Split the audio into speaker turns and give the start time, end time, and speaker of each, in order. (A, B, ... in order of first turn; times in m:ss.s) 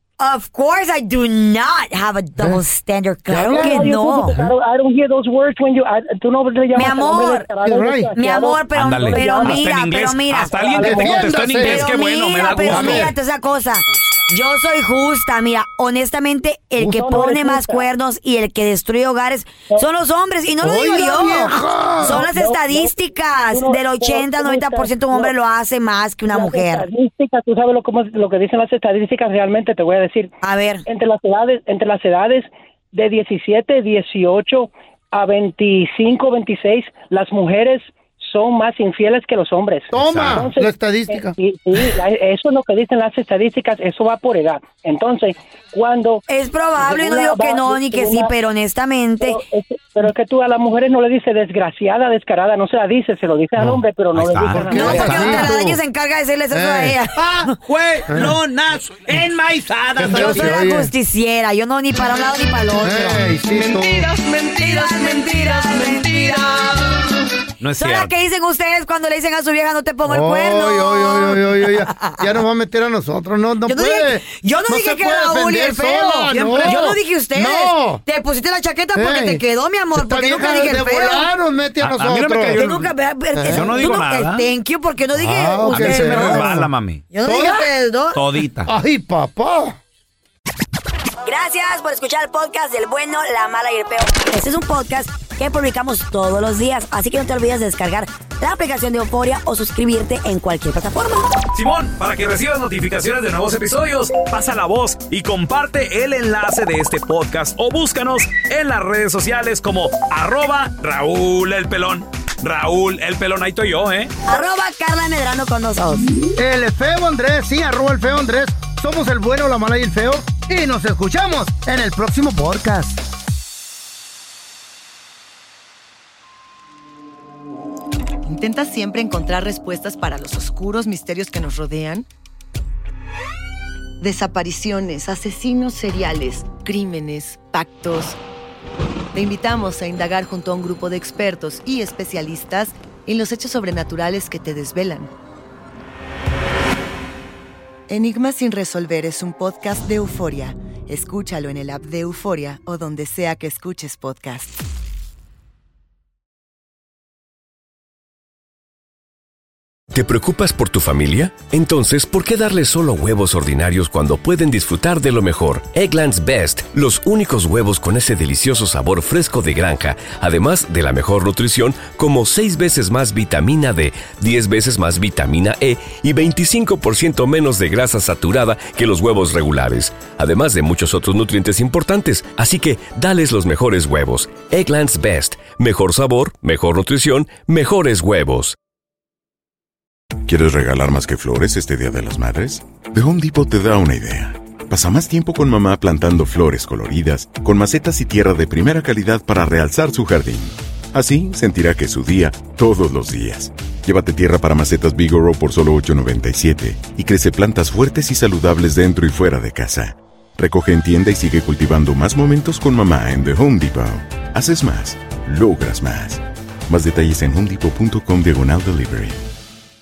0:00.2-0:04.4 A
0:02.4-0:02.6 B
0:03.2-0:04.5 B
0:03.4-0:09.7 C
0:06.7-0:07.5 A
0:07.6-0:08.1 B
0:08.2-0:26.9 A
0:08.7-0:13.1 D
0:10.5-0:11.9 B
0:12.6-0:13.1 B
0:16.8-0:17.9 C
0:20.6-0:22.3 B
0:22.0-0:22.9 C
0:23.5-0:25.3 C
0:26.3-0:30.3 C
0:30.4-0:30.8 A
0:30.9-0:46.2 C
0:39.9-0:41.4 B
0:40.0-0:40.4 E
0:46.3-0:49.4 A
0:46.8-0:48.3 C
0:49.2-0:55.5 C
0:53.6-0:53.8 B
0:54.2-0:54.5 E
0:54.5-0:55.8 B
0:54.7-0:57.2 A
0:56.5-0:57.0 B
0:57.2-1:00.6 E
0:58.1-0:58.3 B
1:00.0-1:00.9 B
1:00.1-1:06.9 A
1:02.8-1:04.1 B
1:07.6-1:08.1 D
1:07.8-1:12.2 A
1:10.0-1:18.0 B
1:13.6-1:21.3 A
1:18.9-1:22.6 B
1:21.8-1:24.5 D
1:22.6-1:28.2 A
1:23.3-1:23.9 B
1:25.2-1:26.7 B
1:25.7-1:27.0 D
1:27.2-1:27.7 B
1:28.1-1:28.7 D
1:28.6-1:29.8 B
1:31.2-1:41.3 A
1:41.5-1:54.1 D
1:54.2-1:56.1 A
1:56.4-2:03.0 B
2:08.2-2:12.0 F
2:14.0-2:18.2 F
2:19.1-2:25.1 F
2:27.9-2:34.5 F
2:39.9-3:08.6 G
3:10.2-3:39.2 H